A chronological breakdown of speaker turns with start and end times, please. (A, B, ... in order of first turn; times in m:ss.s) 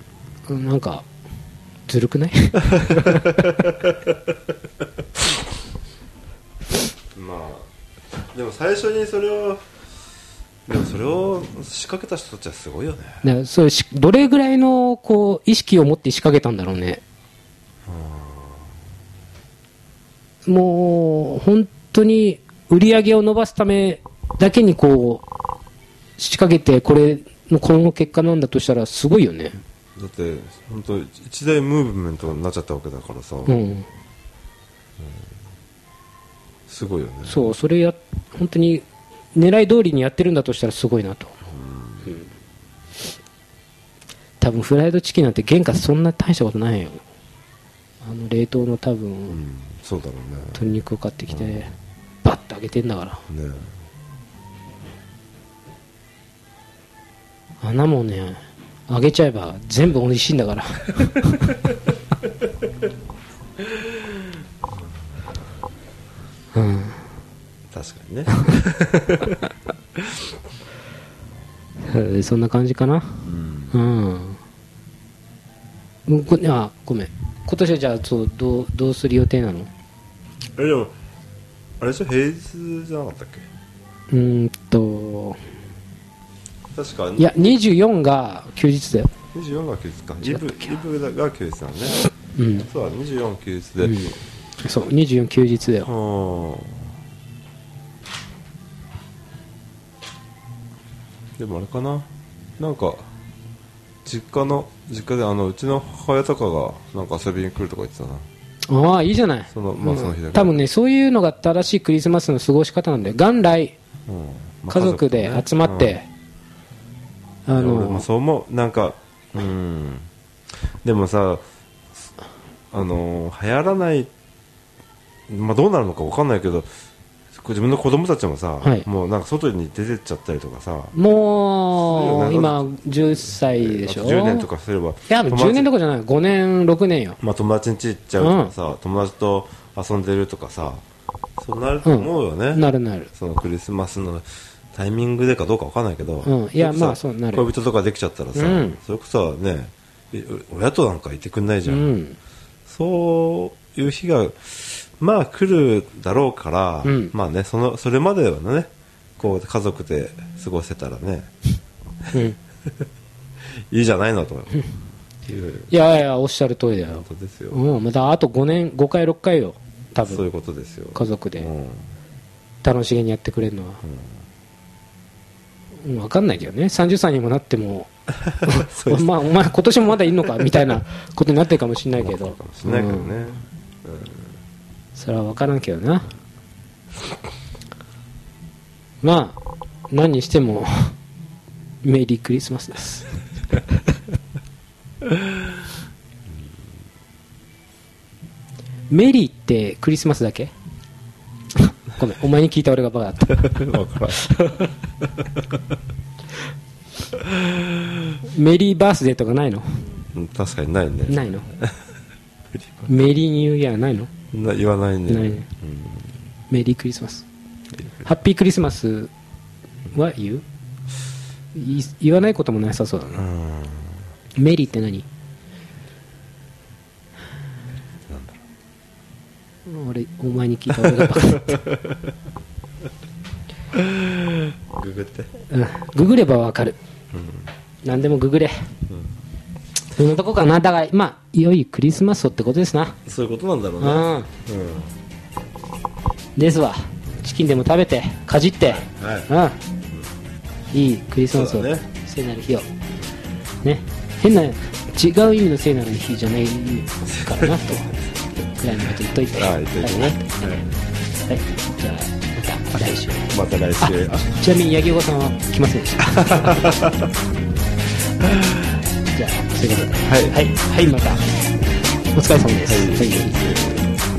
0:00.5-0:01.0 A
0:01.9-0:03.5 A
0:02.7-0:04.3 B
0:07.1-0:07.7 B
0:08.3-0:09.7 B
0:10.6-0:13.2 B
0:13.2-0:17.0 A
0:17.8-0:18.7 B
0:20.4-0:25.2 A
0:26.2-0:29.6 A
0:30.0-0:33.6 B
0:33.4-0:33.8 A
0:36.7-0:37.4 B
0:37.2-0:41.4 A
0:41.5-0:42.2 B
0:44.4-0:47.0 A
0:48.0-0:49.4 A
0:49.3-0:50.6 B
0:50.5-0:51.7 A
0:51.3-0:51.6 B
0:52.2-0:53.2 A
0:53.3-0:53.7 B
0:57.6-1:01.5 A
1:03.6-1:04.2 B
1:06.5-1:07.0 A
1:07.7-1:09.4 B
1:10.0-1:10.3 B
1:11.8-1:14.4 A
1:13.2-1:13.7 B
1:16.1-1:19.7 A
1:20.6-1:20.9 B
1:21.8-1:23.5 B
1:24.1-1:25.4 A
1:26.7-1:27.4 B
1:27.2-1:29.1 A
1:29.3-1:32.0 B
1:30.2-1:30.7 A
1:32.3-1:32.7 A
1:32.6-1:34.0 B
1:33.8-1:35.9 A
1:35.8-1:36.8 B
1:41.4-1:42.1 B
1:42.6-1:43.1 B
1:44.0-1:48.2 B
1:48.7-1:53.7 A
1:49.5-1:50.6 B
1:54.1-1:56.0 B
1:54.7-1:56.1 A
1:57.4-1:58.0 A
1:57.5-2:00.1 B
2:00.8-2:01.4 B
2:02.7-2:04.1 B
2:05.3-2:06.7 B
2:07.3-2:10.9 B
2:10.9-2:14.5 A
2:11.8-2:15.7 B
2:15.1-2:17.2 A
2:17.2-2:20.8 B
2:18.2-2:18.5 A
2:21.4-2:31.9 B
2:21.8-2:23.1 A
2:26.2-2:27.5 A
2:28.3-2:28.8 A
2:31.7-2:32.2 A
2:32.7-2:41.3 B
2:36.8-2:37.1 A
2:43.7-2:44.6 B
2:45.2-2:45.7 B
2:45.7-2:50.2 A
2:47.0-2:47.6 B
2:50.0-2:51.9 B
2:50.9-2:51.5 A
2:52.6-2:53.8 A
2:53.8-2:54.1 B
2:55.8-2:57.9 A
2:58.3-2:59.1 B
2:58.4-3:03.1 A
3:02.0-3:04.2 B
3:04.9-3:06.1 A
3:09.0-3:09.4 A
3:09.9-3:11.0 A
3:11.8-3:13.1 A
3:18.9-3:20.5 A
3:21.6-3:23.6 A
3:23.4-3:24.3 B
3:24.2-3:24.7 A
3:25.0-3:25.6 B
3:27.1-3:27.8 B
3:28.3-3:29.9 A
3:30.1-3:31.8 B
3:31.1-3:31.5 A
3:32.5-3:32.9 B
3:32.9-3:34.1 A
3:34.3-3:36.1 B
3:35.1-3:35.4 A
3:36.5-3:37.2 A
3:37.8-3:38.1 B
3:38.0-3:39.1 A
3:39.9-3:40.4 A
3:41.5-3:43.3 A
3:43.1-3:44.0 B
3:44.4-3:45.0 A
3:48.1-3:48.4 B
3:49.6-3:51.6 A
3:50.8-3:52.1 B
3:53.7-3:55.3 B
3:55.5-3:56.8 A
3:57.1-3:57.5 B
3:57.8-3:58.6 A
4:00.0-4:03.0 A
4:03.0-4:04.9 B
4:03.8-4:04.3 A
4:06.4-4:09.6 A
4:08.6-4:09.3 B
4:10.7-4:12.7 A
4:11.3-4:11.8 B
4:13.6-4:18.0 A
4:17.1-4:18.5 B
4:18.5-4:20.5 A
4:19.3-4:20.6 B
4:21.3-4:26.6 A
4:23.3-4:24.2 B
4:26.1-4:27.1 B
4:28.2-4:28.7 B
4:29.1-4:31.2 A
4:30.0-4:30.4 B
4:32.1-4:33.4 A
4:32.6-4:33.9 B